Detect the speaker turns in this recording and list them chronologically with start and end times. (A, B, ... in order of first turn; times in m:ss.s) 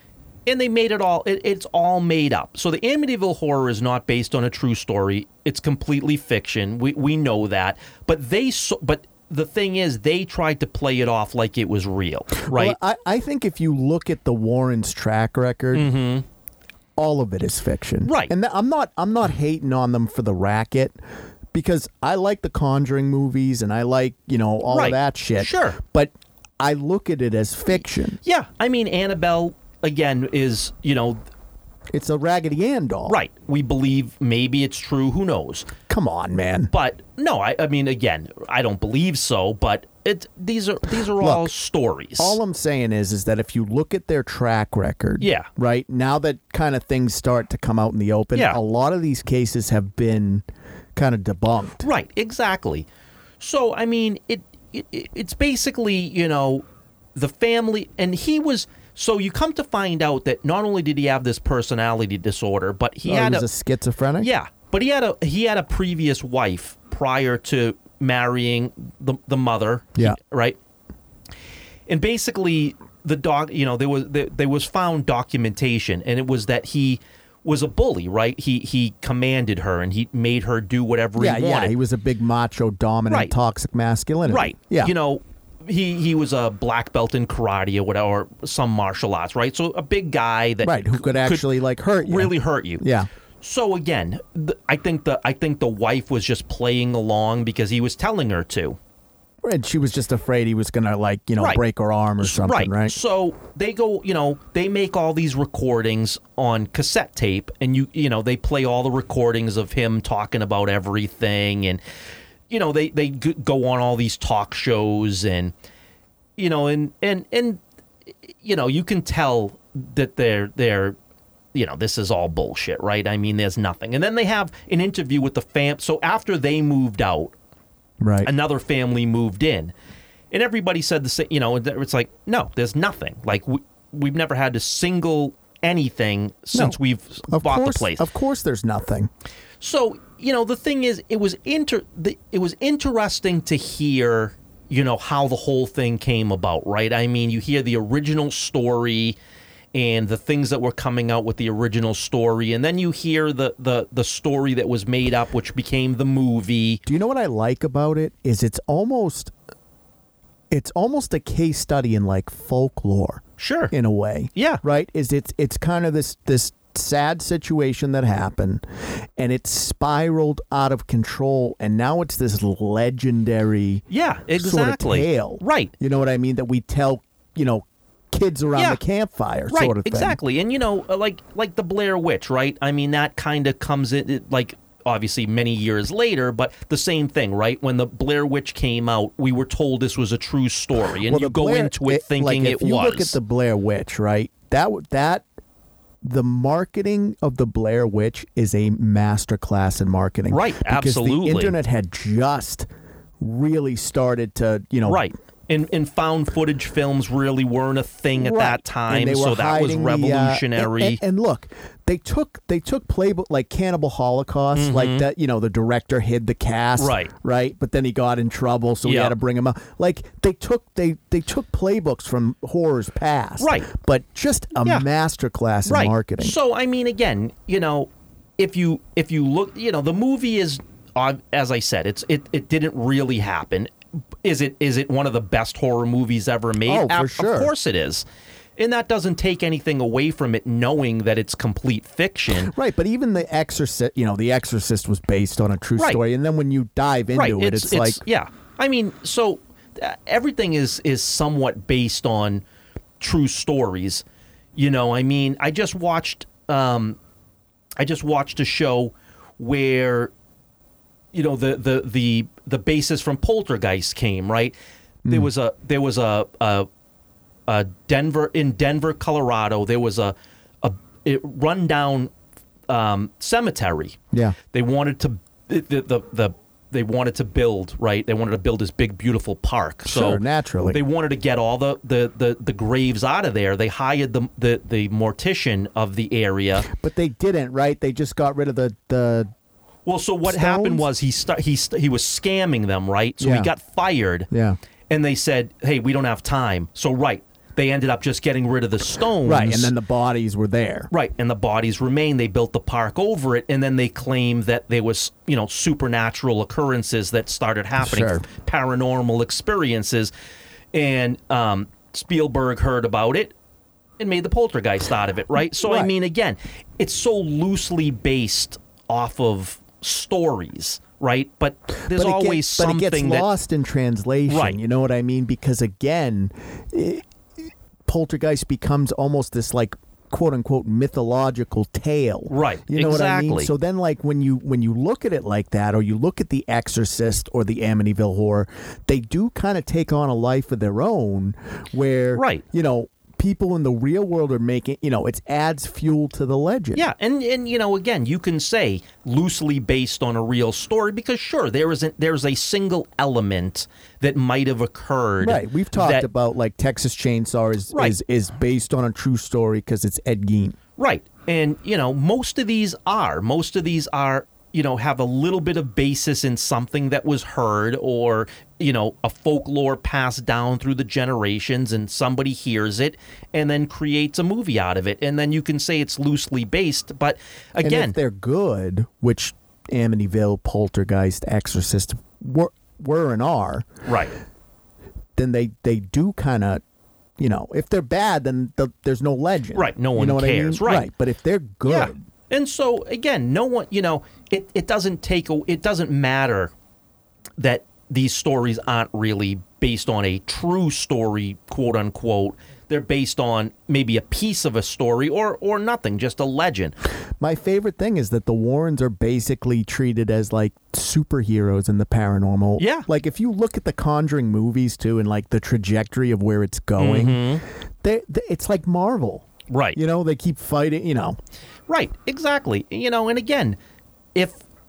0:00.4-0:12.8 A
0:12.4-0:15.9 B
0:15.7-0:16.2 A
0:17.0-0:20.9 B
0:18.0-0:18.3 A
0:21.5-0:28.2 B
0:24.6-0:25.8 A
0:28.2-0:31.2 A
0:31.9-0:33.2 B
0:33.1-0:35.7 A
0:35.9-0:36.7 B
0:36.7-0:42.4 A
0:41.2-0:41.5 B
0:42.2-0:50.4 B
0:45.2-0:45.5 A
0:51.0-0:51.8 B
0:51.8-0:52.9 A
0:53.4-1:03.5 A
1:03.0-1:04.3 B
1:04.2-1:10.6 A
1:11.9-1:21.7 A
1:21.2-1:24.9 B
1:24.2-1:31.4 A
1:30.6-1:33.1 B
1:32.0-1:32.8 A
1:33.4-1:38.8 A
1:39.4-1:43.0 B
1:42.2-1:51.8 A
1:52.5-1:55.5 A
1:56.4-1:57.6 A
1:58.3-2:01.0 A
2:01.5-2:07.3 A
2:08.0-2:08.3 B
2:08.2-2:09.7 A
2:10.3-2:18.0 A
2:17.3-2:19.1 B
2:19.6-2:29.2 A
2:29.7-2:36.8 A
2:36.8-2:39.3 B
2:40.5-2:48.6 B
2:43.4-2:43.7 A
2:44.4-2:44.6 A
2:49.2-2:53.8 B
2:53.9-2:55.7 A
2:54.4-3:00.2 B
2:58.6-2:58.8 A
2:59.5-3:13.2 A
3:11.0-3:15.2 B
3:16.0-3:22.7 B
3:20.3-3:21.6 A
3:23.2-3:25.1 B
3:24.8-3:31.0 A
3:28.2-3:46.4 B
3:34.5-3:35.0 A
3:36.8-3:37.1 A
3:38.8-3:39.1 A
3:43.4-3:43.7 A
3:45.6-3:58.0 A
3:56.6-3:57.5 B
3:58.6-4:02.5 A
4:02.4-4:08.0 B
4:07.1-4:12.4 A
4:13.0-4:17.0 A
4:17.8-4:20.1 A
4:21.1-4:24.5 A
4:25.1-4:26.7 A
4:27.5-4:32.1 A
4:32.7-4:34.0 A
4:34.1-4:34.4 B
4:34.5-4:46.7 A
4:39.8-4:40.8 B
4:46.6-4:49.3 B
4:49.8-4:54.3 A
4:50.2-4:50.8 B
4:53.2-4:53.5 B
4:54.3-4:54.6 B
4:54.9-4:59.7 A
4:59.2-5:00.9 B
5:00.9-5:10.1 A
5:07.8-5:08.2 B
5:10.7-5:13.3 A
5:14.0-5:23.3 A
5:15.6-5:15.9 B
5:21.8-5:27.0 B
5:24.3-5:24.6 A
5:27.9-5:46.8 B
5:32.3-5:33.5 A
5:42.1-5:42.4 A
5:46.7-5:56.1 A
5:55.2-6:00.6 B
6:00.8-6:18.0 A
6:17.6-6:23.7 B
6:23.8-6:24.1 A
6:25.2-6:26.6 B
6:27.2-6:32.0 B
6:29.5-6:30.9 A
6:31.6-6:36.5 A
6:37.4-6:46.7 A
6:47.2-7:01.2 B
6:52.6-6:52.8 A
6:56.8-6:57.4 A
6:59.5-6:59.8 A
7:01.7-7:03.6 A
7:04.1-7:04.4 A